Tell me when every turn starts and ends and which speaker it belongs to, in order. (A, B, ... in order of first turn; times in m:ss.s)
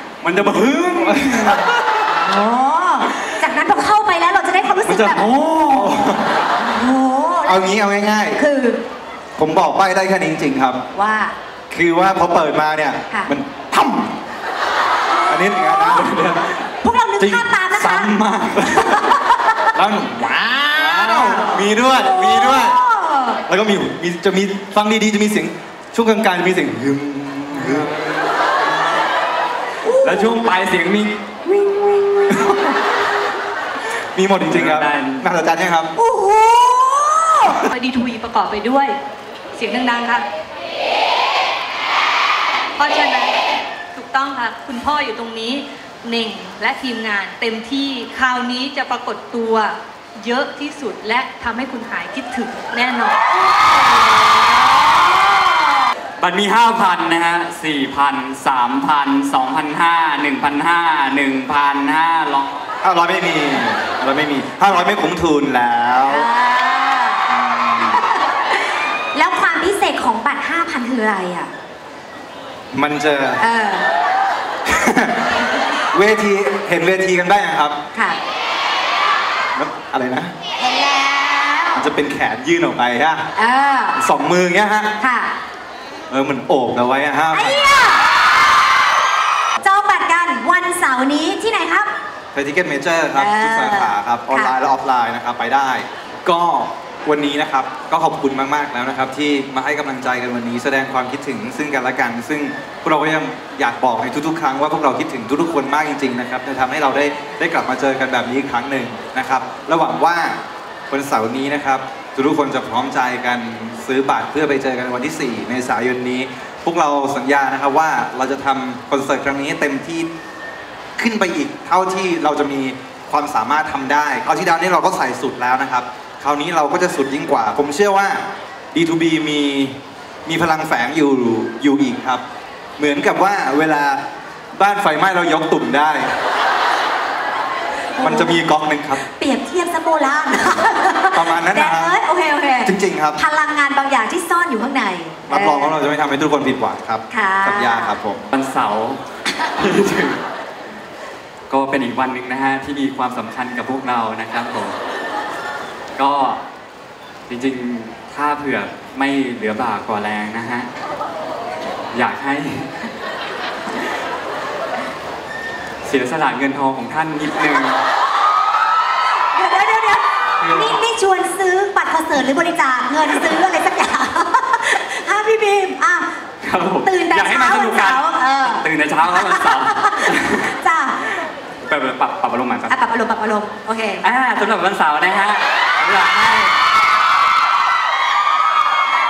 0:00.2-0:01.6 A
0:00.5-0:01.8 B
0:02.1-0:05.2 C
0:04.8-0:06.3 B
0:06.6-0:08.8 C
0:07.4-0:08.4 B
0:09.4-0:10.8 B
0:10.9-0:11.4 C
0:11.7-0:14.1 B
0:15.3-0:16.6 B
0:15.3-0:16.1 C
0:16.8-0:19.7 C
0:17.2-0:19.2 B
0:19.7-0:22.8 B
0:20.7-0:23.4 C
0:23.4-0:27.9 B
0:27.5-0:28.3 A
0:29.8-0:30.4 C
0:30.0-0:31.5 A
0:31.9-0:32.6 C
0:34.1-0:35.9 B
0:34.4-0:35.3 A
0:36.0-0:37.7 C
0:37.7-0:39.0 D
0:39.5-0:40.2 D
0:42.8-0:43.2 C
0:42.8-0:43.4 D
0:43.9-0:53.3 D
0:53.2-0:55.8 C
0:56.2-1:02.6 A
1:02.8-1:06.3 B
1:06.1-1:07.3 C
1:07.3-1:08.1 B
1:07.9-1:11.5 C
1:12.7-1:13.4 B
1:13.4-1:13.9 C
1:14.6-1:17.8 B
1:17.9-1:18.2 C
1:19.5-1:20.3 B
1:20.6-1:21.9 C
1:21.7-1:23.3 B
1:23.4-1:24.0 C
1:24.0-1:24.9 B
1:25.0-1:25.3 C
1:26.1-1:27.7 B
1:27.3-1:28.1 C
1:29.6-1:31.9 C
1:32.3-1:50.4 B
1:33.1-1:34.5 C
1:50.9-2:00.1 B
2:01.0-2:12.2 B
2:12.8-2:16.1 B
2:18.0-2:18.4 C
2:18.0-2:19.0 B
2:19.0-2:25.8 C
2:21.1-2:21.9 B
2:22.6-2:23.2 B
2:25.3-2:28.2 B
2:27.1-2:28.0 C
2:28.3-2:30.2 A
2:31.5-2:34.8 A
2:36.0-2:36.4 A
2:37.3-2:40.7 A
2:41.9-2:42.8 A
2:45.8-2:47.8 A
2:49.3-2:56.2 C
2:50.4-2:50.8 A
2:56.4-3:00.5 A
2:56.8-3:01.2 C
3:01.6-3:02.8 A
3:02.7-3:04.0 C
3:04.0-3:06.6 A